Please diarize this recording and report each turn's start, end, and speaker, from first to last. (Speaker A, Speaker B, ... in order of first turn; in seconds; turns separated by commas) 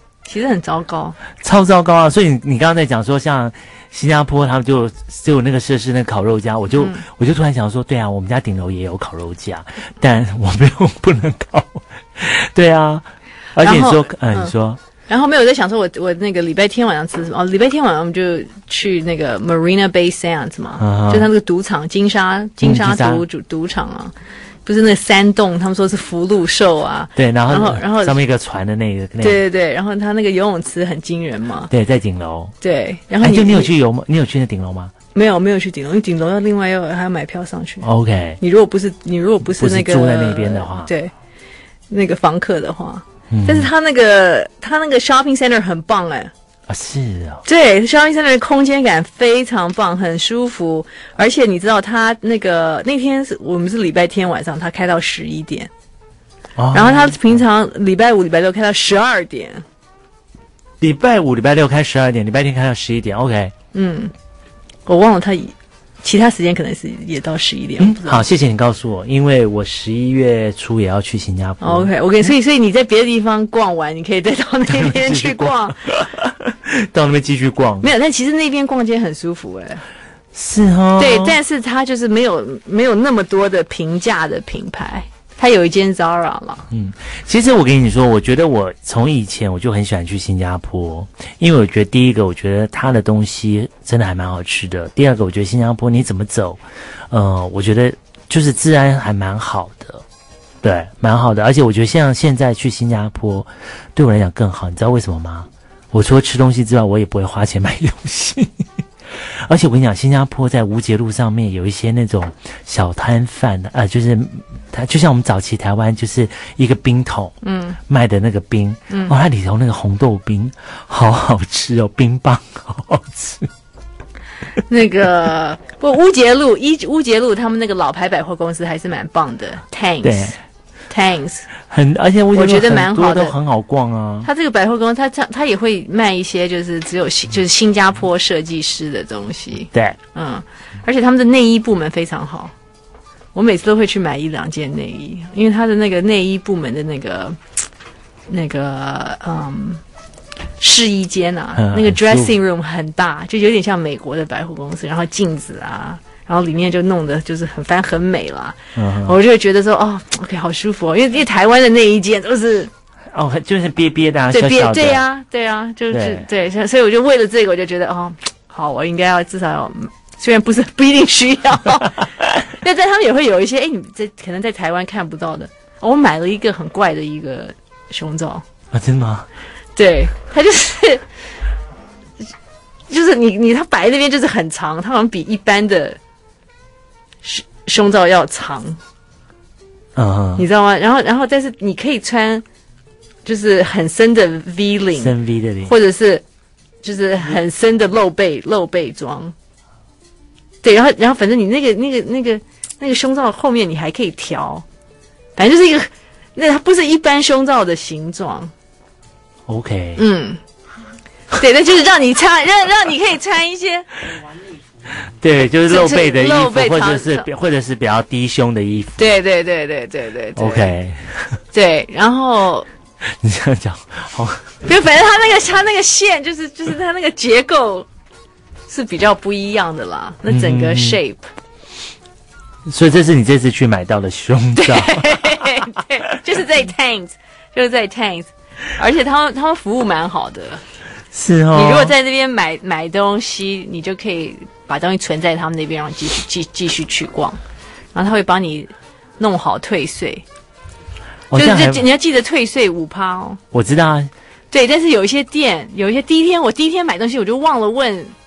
Speaker A: 0.2-1.2, Speaker B: 1.4-14.8, Speaker A: 6.8-7.0, Speaker A: 13.6-14.5, Speaker A: 15.1-24.1, Speaker B: 20.8-21.3, Speaker B: 22.6-23.2, Speaker A: 24.6-28.2, Speaker B: 27.1-29.4, Speaker A: 29.2-31.7, Speaker B: 31.7-32.5, Speaker A: 32.6-33.7, Speaker B: 33.2-34.9, Speaker A: 35.1-37.9, Speaker B: 37.8-38.4, Speaker A: 38.4-41.1, Speaker B: 39.6-40.9, Speaker A: 41.9-46.3, Speaker B: 43.3-43.7, Speaker B: 46.7-47.4, Speaker A: 47.4-55.7, Speaker B: 56.6-57.4, Speaker A: 56.7-59.6, Speaker B: 60.8-63.5, Speaker A: 63.7-64.1, Speaker A: 64.8-68.2, Speaker B: 67.8-72.2, Speaker A: 71.6-75.9, Speaker B: 74.7-77.9, Speaker A: 77.8-79.8, Speaker B: 80.3-81.4, Speaker A: 81.0-86.7, Speaker B: 86.7-100.0, Speaker B: 100.6-117.3, Speaker A: 117.4-117.8, Speaker B: 117.9-123.5, Speaker A: 118.9-119.1, Speaker A: 124.7-130.4, Speaker B: 130.0-130.4, Speaker A: 130.9-131.5, Speaker B: 131.7-134.3, Speaker A: 132.3-133.3, Speaker A: 134.2-142.5, Speaker B: 139.7-140.0, Speaker A: 143.3-147.4, Speaker A: 148.3-149.8, Speaker A: 150.6-162.7, Speaker B: 151.5-152.4, Speaker B: 158.8-159.2, Speaker B: 163.1-165.0, Speaker A: 164.3-178.4, Speaker B: 165.9-166.2, Speaker B: 178.7-179.3, Speaker A: 179.8-181.1, Speaker A: 182.9-186.0, Speaker A: 187.2-188.8, Speaker B: 189.9-190.5, Speaker A: 190.4-192.4, Speaker A: 193.2-195.1, Speaker B: 194.9-195.7, Speaker A: 195.6-196.2, Speaker A: 196.8-199.3, Speaker A: 200.6-204.6, Speaker A: 205.3-208.5, Speaker B: 209.5-210.0, Speaker A: 210.0-210.4, Speaker A: 211.3-213.9, Speaker B: 215.1-219.0, Speaker A: 215.7-217.3, Speaker A: 219.0-220.7, Speaker B: 220.3-221.4, Speaker A: 221.5-222.7, Speaker B: 223.0-224.5, Speaker A: 224.6-227.9, Speaker A: 228.7-231.2, Speaker B: 230.3-231.0, Speaker B: 232.7-235.6, Speaker A: 234.6-240.6, Speaker B: 241.1-241.9, Speaker A: 241.5-247.4, Speaker A: 247.9-250.2, Speaker B: 251.3-251.8, Speaker A: 251.3-253.4, Speaker B: 253.5-254.1, Speaker A: 254.5-258.1